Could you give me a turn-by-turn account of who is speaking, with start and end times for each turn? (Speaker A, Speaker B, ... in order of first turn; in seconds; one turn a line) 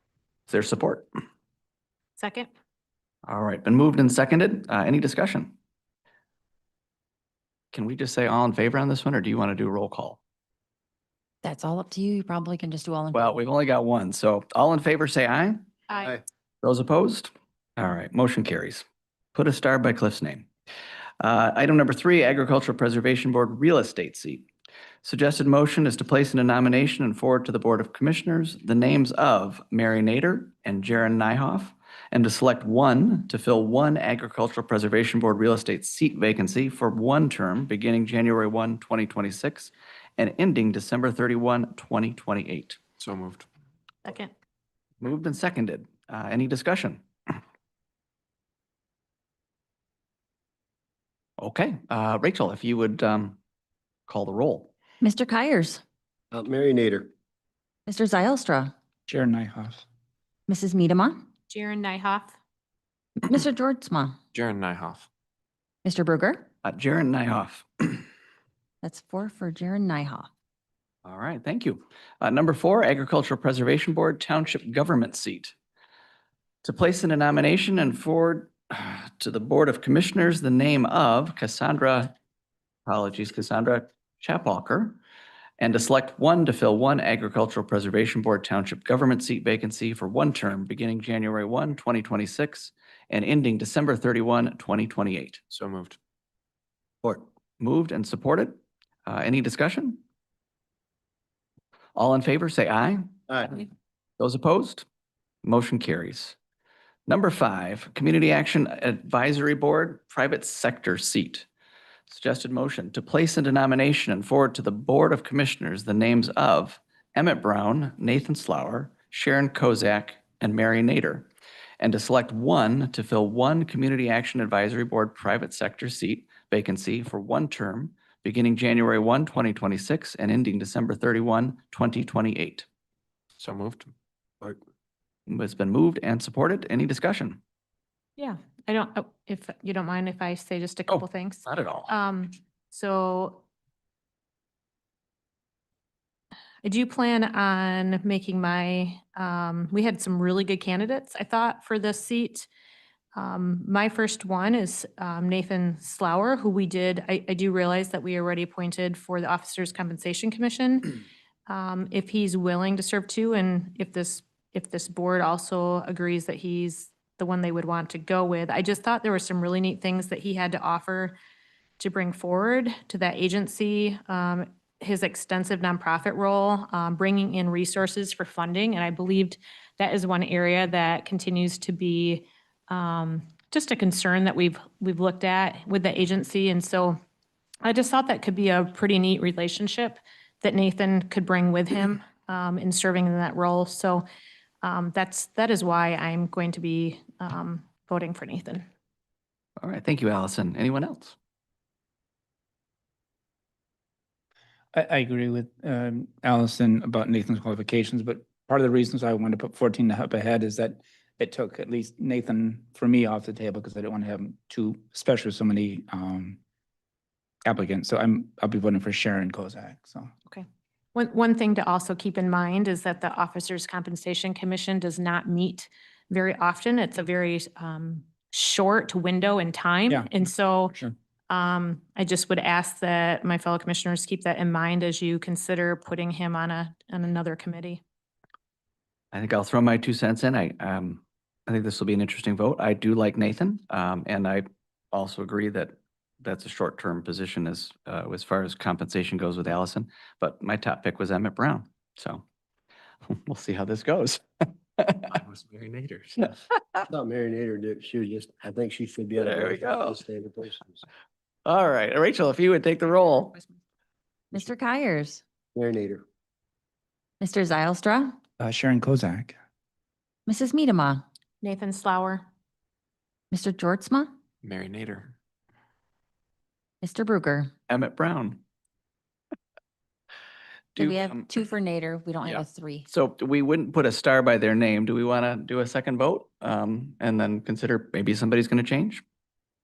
Speaker A: 0.5-1.1
Speaker B: 2.2-2.5
Speaker A: 3.3-5.5
Speaker A: 7.7-10.2
Speaker C: 11.4-13.3
Speaker A: 13.1-15.6
Speaker B: 15.9-16.2
Speaker A: 16.6-18.8
Speaker A: 19.4-20.5
Speaker A: 21.2-24.5
Speaker A: 25.0-42.8
Speaker D: 43.0-43.5
Speaker B: 44.0-44.3
Speaker A: 45.0-47.0
Speaker A: 51.4-53.4
Speaker A: 54.1-54.7
Speaker C: 55.0-55.8
Speaker E: 56.3-57.1
Speaker C: 57.9-58.7
Speaker F: 59.1-59.8
Speaker C: 60.5-61.2
Speaker B: 61.5-62.4
Speaker C: 63.2-64.2
Speaker D: 64.3-65.1
Speaker C: 65.8-66.5
Speaker A: 66.6-68.0
Speaker C: 68.8-70.3
Speaker A: 71.0-75.5
Speaker A: 76.6-82.1
Speaker A: 82.9-85.0
Speaker A: 85.6-95.4
Speaker D: 95.5-96.0
Speaker A: 97.6-100.0
Speaker A: 102.0-103.1
Speaker A: 104.2-104.8
Speaker A: 105.4-106.4
Speaker A: 107.1-111.5
Speaker A: 112.1-121.3
Speaker A: 121.8-132.7
Speaker D: 133.4-133.9
Speaker A: 135.3-137.4
Speaker B: 138.2-143.4
Speaker A: 140.9-141.9
Speaker B: 146.6-152.5
Speaker B: 153.2-171.2
Speaker B: 171.8-187.0
Speaker B: 187.6-194.1
Speaker B: 194.6-198.7
Speaker A: 199.6-201.2
Speaker F: 204.7-216.4
Speaker F: 217.4-220.1
Speaker B: 220.3-230.8
Speaker F: 229.9-230.2
Speaker B: 231.3-237.8
Speaker A: 239.1-252.2
Speaker A: 253.1-254.2
Speaker A: 254.8-255.1
Speaker D: 255.1-256.1
Speaker A: 256.2-256.8
Speaker E: 256.9-260.8
Speaker A: 259.2-260.0
Speaker A: 261.5-263.4
Speaker C: 264.3-265.2
Speaker E: 265.6-266.0
Speaker C: 267.2-268.2
Speaker F: 268.4-269.4
Speaker C: 270.3-271.0
Speaker B: 271.4-272.3
Speaker C: 273.3-274.1
Speaker D: 274.4-275.1
Speaker C: 276.8-277.5
Speaker A: 277.7-278.4
Speaker A: 280.8-281.2
Speaker C: 280.8-282.9
Speaker A: 282.2-289.0